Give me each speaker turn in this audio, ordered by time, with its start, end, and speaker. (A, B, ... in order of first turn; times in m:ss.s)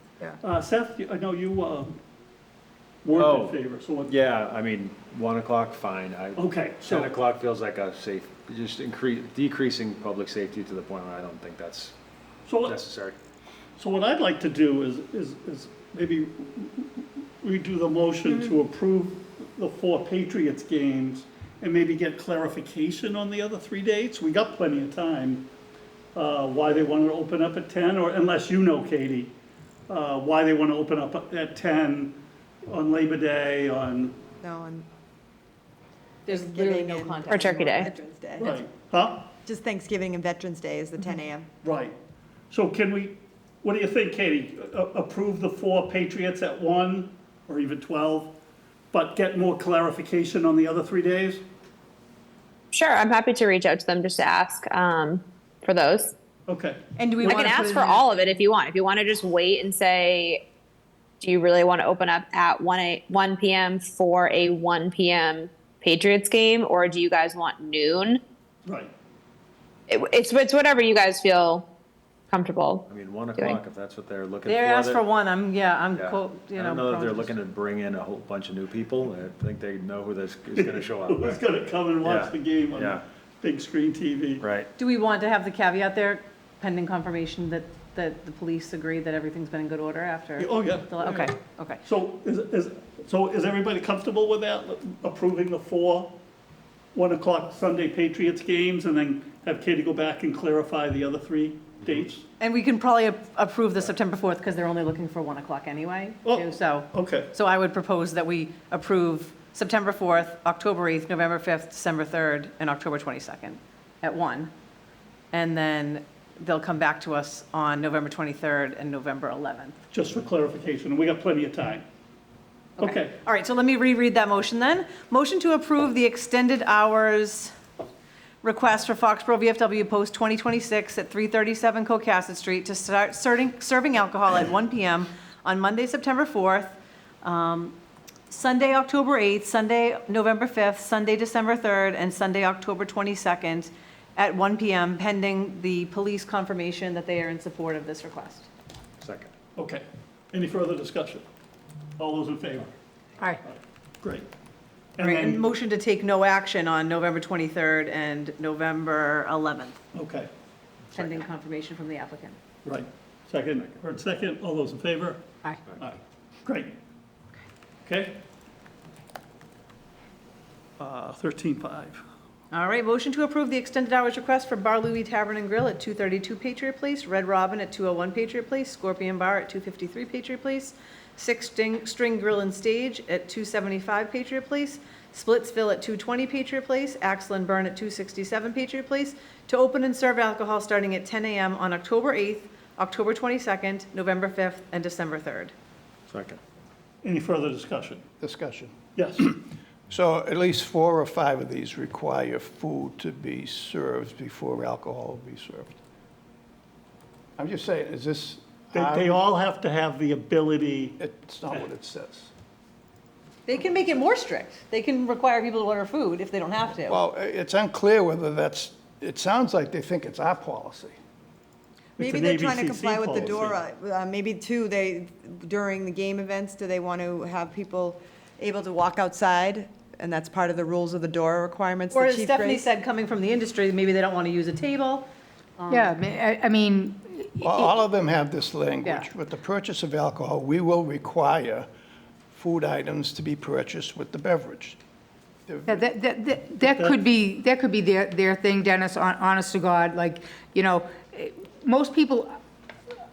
0:00.4-0:02.0 A
0:03.0-0:04.1 A
0:03.2-0:12.0 B
0:06.4-0:07.2 A
0:12.5-0:12.8 A
0:12.6-0:13.2 B
0:13.8-0:25.5 A
0:26.2-0:29.3 A
0:29.9-0:34.2 A
0:34.4-0:34.9 C
0:36.3-0:37.9 D
0:36.3-0:38.6 C
0:37.3-0:37.9 E
0:38.4-0:39.3 A
0:39.4-0:41.5 C
0:41.6-0:42.0 A
0:42.5-0:48.4 A
0:48.9-0:51.4 A
0:52.7-0:56.1 E
0:56.5-0:57.8 A
0:57.0-0:58.0 D
0:57.2-1:00.4 E
0:57.2-0:57.7 C
1:01.2-1:08.2 E
1:08.6-1:08.9 A
1:09.9-1:11.6 E
1:12.3-1:12.8 E
1:12.9-1:15.1 B
1:14.5-1:17.4 D
1:15.9-1:21.4 B
1:20.6-1:24.4 A
1:22.0-1:23.0 B
1:24.4-1:24.7 B
1:24.8-1:31.8 D
1:30.4-1:31.3 A
1:31.8-1:36.2 A
1:36.9-1:42.2 A
1:42.4-1:54.5 D
1:46.2-1:47.3 A
1:55.3-1:59.8 D
1:59.9-2:01.8 A
2:02.8-2:07.6 D
2:02.8-2:03.1 A
2:08.4-2:17.8 D
2:18.3-2:28.5 D
2:29.0-2:29.3 B
2:29.6-2:31.2 A
2:32.0-2:32.7 A
2:33.5-2:34.3 A
2:35.0-2:35.4 A
2:35.0-2:39.8 D
2:39.9-2:40.3 A
2:41.0-2:42.4 D
2:42.6-2:45.2 A
2:45.8-2:46.8 A
2:47.8-2:48.2 A
2:50.8-2:52.0 A
2:52.5-3:15.5 D
3:16.1-3:16.4 B
3:17.0-3:18.0 A
3:18.2-3:19.4 F
3:19.0-3:19.3 A
3:19.9-3:25.8 F
3:27.4-3:29.2 F
3:28.7-3:31.0 A
3:31.0-3:32.3 F
3:33.5-3:37.0 D
3:36.9-3:41.0 F
3:42.0-3:43.6 A
3:42.0-3:52.7 C
3:51.9-3:56.0 D
3:55.7-3:57.8 G
3:57.4-4:01.7 F
4:02.3-4:04.8 F
4:05.5-4:05.8 F
4:05.7-4:12.3 G
4:06.7-4:07.0 A